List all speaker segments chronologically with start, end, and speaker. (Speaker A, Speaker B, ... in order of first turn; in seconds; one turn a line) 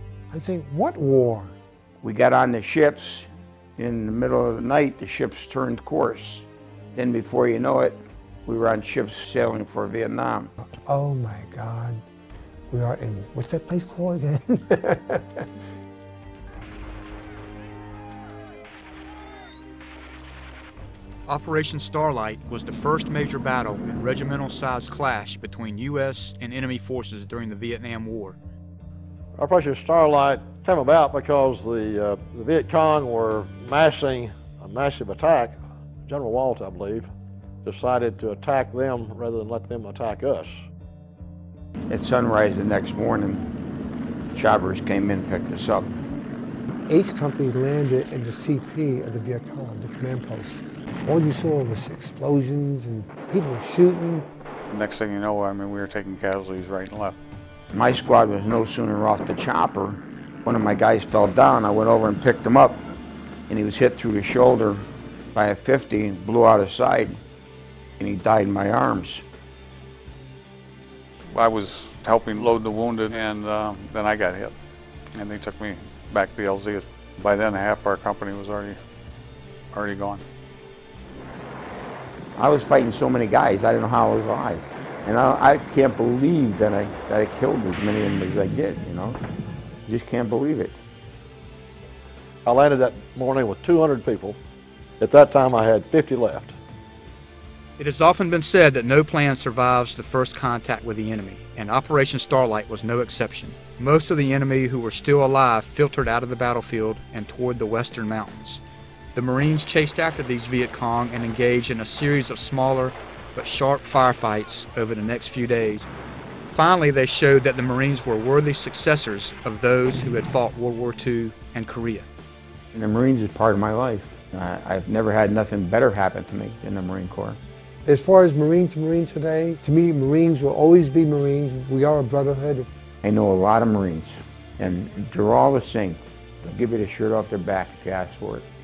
Speaker A: 0.3-1.5
Speaker B: 2.0-10.5
Speaker A: 10.8-12.0
Speaker A: 12.7-15.4
Speaker C: 21.3-28.4
Speaker D: 29.4-37.1
Speaker D: 37.6-40.7
Speaker B: 41.9-43.5
Speaker B: 44.3-46.0
Speaker A: 46.9-54.3
Speaker E: 54.7-57.2
Speaker B: 57.7-62.9
Speaker B: 63.5-67.2
Speaker B: 68.0-69.2
Speaker E: 71.3-74.5
Speaker E: 75.1-78.8
Speaker E: 79.7-80.2
Speaker B: 82.4-89.2
Speaker B: 89.9-90.8
Speaker D: 92.5-94.4
Speaker D: 95.0-96.6
Speaker C: 97.8-108.6
Speaker C: 109.2-115.9
Speaker C: 116.5-122.1
Speaker B: 122.7-127.4
Speaker A: 127.9-132.7
Speaker B: 133.0-138.5